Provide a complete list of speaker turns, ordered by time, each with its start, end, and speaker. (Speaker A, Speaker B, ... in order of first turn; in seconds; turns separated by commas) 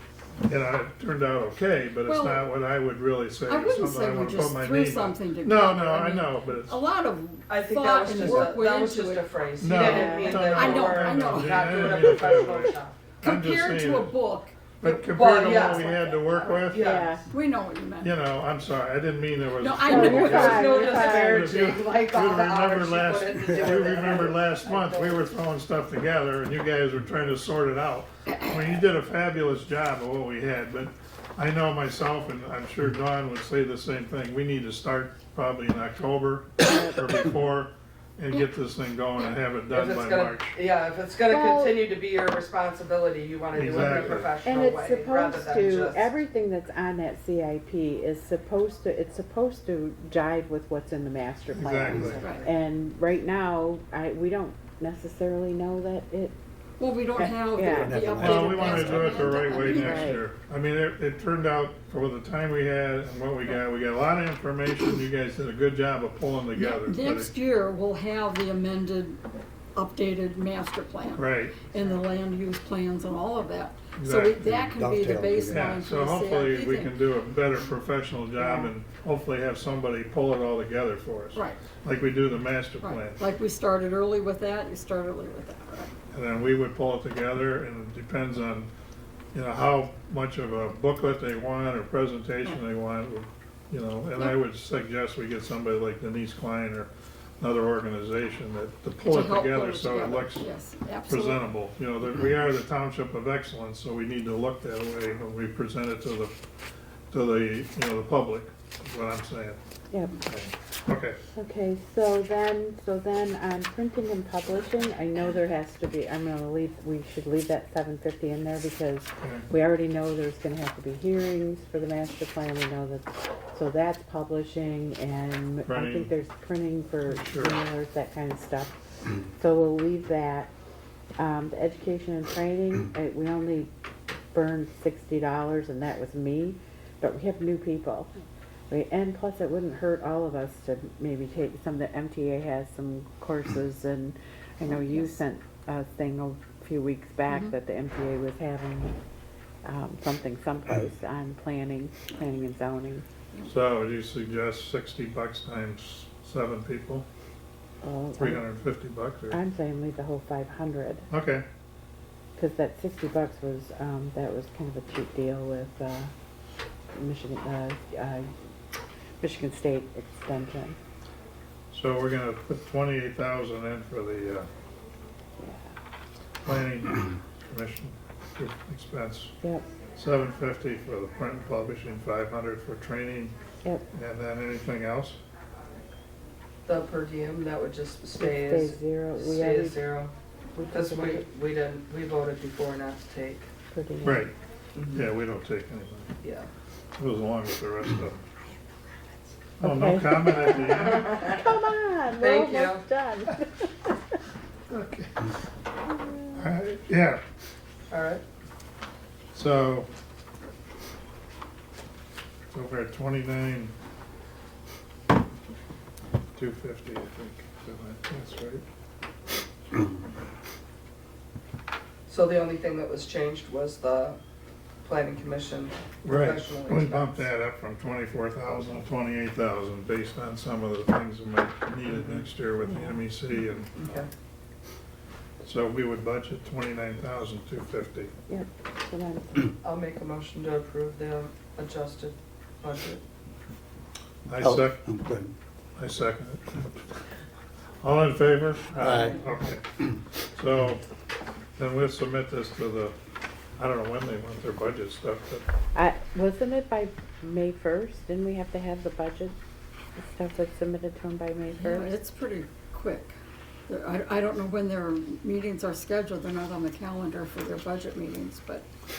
Speaker A: 0.5-6.8, Speaker B: 2.1-2.5, Speaker B: 3.5-9.2, Speaker C: 7.5-13.0, Speaker A: 9.6-14.1, Speaker D: 9.7-10.6, Speaker B: 10.2-12.2, Speaker B: 13.2-14.6, Speaker A: 14.8-17.2, Speaker C: 14.8-17.1, Speaker B: 15.8-16.5, Speaker D: 16.7-17.2, Speaker B: 17.3-18.1, Speaker A: 18.0-40.5, Speaker B: 19.5-20.9, Speaker D: 19.9-21.6, Speaker C: 20.1-25.3, Speaker B: 28.5-28.8, Speaker D: 36.6-37.1, Speaker C: 39.7-46.1, Speaker D: 41.3-41.8, Speaker A: 43.5-44.4, Speaker D: 43.7-56.4, Speaker A: 51.5-52.2, Speaker C: 51.8-52.5, Speaker B: 52.2-52.5, Speaker B: 56.8-60.2, Speaker D: 57.2-58.1, Speaker E: 57.7-59.3, Speaker A: 58.1-67.3, Speaker D: 59.2-60.2, Speaker B: 66.5-69.2, Speaker B: 69.8-76.9, Speaker A: 71.2-71.6, Speaker A: 74.0-74.5, Speaker E: 74.4-75.8, Speaker A: 75.5-83.2, Speaker D: 78.4-78.7, Speaker B: 82.8-85.9, Speaker A: 86.1-88.7, Speaker A: 89.3-100.5, Speaker B: 99.0-101.4, Speaker A: 101.1-106.3, Speaker A: 107.1-109.6, Speaker D: 109.9-110.2, Speaker A: 110.2-111.2, Speaker D: 111.4-130.5, Speaker A: 119.2-119.5, Speaker A: 125.7-126.1, Speaker A: 127.1-127.6, Speaker D: 131.2-133.7, Speaker D: 134.3-138.1, Speaker D: 138.7-149.0, Speaker B: 147.3-147.5, Speaker D: 149.6-153.1, Speaker A: 153.4-157.1, Speaker D: 157.8-158.5, Speaker A: 158.2-159.4, Speaker D: 159.3-161.1, Speaker A: 161.1-161.4, Speaker D: 162.4-166.1, Speaker D: 166.9-168.3, Speaker D: 169.2-170.8, Speaker A: 171.7-174.5, Speaker D: 175.4-175.7, Speaker A: 176.4-179.3, Speaker D: 179.4-179.7, Speaker A: 179.9-183.3, Speaker A: 183.9-185.2, Speaker C: 186.7-190.1, Speaker D: 188.2-189.8, Speaker D: 190.6-191.3, Speaker C: 190.7-193.5, Speaker D: 193.7-194.3, Speaker A: 194.0-194.3, Speaker C: 194.8-195.1, Speaker A: 194.9-196.1, Speaker C: 196.2-196.5, Speaker A: 197.0-198.3, Speaker A: 199.6-201.1, Speaker D: 199.6-203.9, Speaker C: 200.7-201.4, Speaker C: 202.2-202.8, Speaker A: 204.7-205.3, Speaker D: 205.8-206.5, Speaker A: 206.3-207.2, Speaker C: 207.9-208.2, Speaker A: 209.3-209.9, Speaker A: 212.5-213.7, Speaker A: 216.4-218.6, Speaker C: 222.1-224.2, Speaker C: 224.8-227.3, Speaker A: 226.0-233.8, Speaker C: 231.9-232.2, Speaker D: 232.6-233.0, Speaker C: 233.8-234.1, Speaker A: 235.4-238.1, Speaker D: 238.3-239.4, Speaker C: 239.6-243.0, Speaker A: 244.3-244.9, Speaker E: 244.4-245.3, Speaker A: 245.8-246.6, Speaker A: 247.8-249.7, Speaker E: 248.8-249.2, Speaker C: 248.9-249.2, Speaker A: 250.2-250.8, Speaker A: 251.6-253.0, Speaker A: 253.6-255.4, Speaker D: 255.7-259.4, Speaker D: 260.0-261.9, Speaker B: 261.5-263.2, Speaker B: 263.7-268.7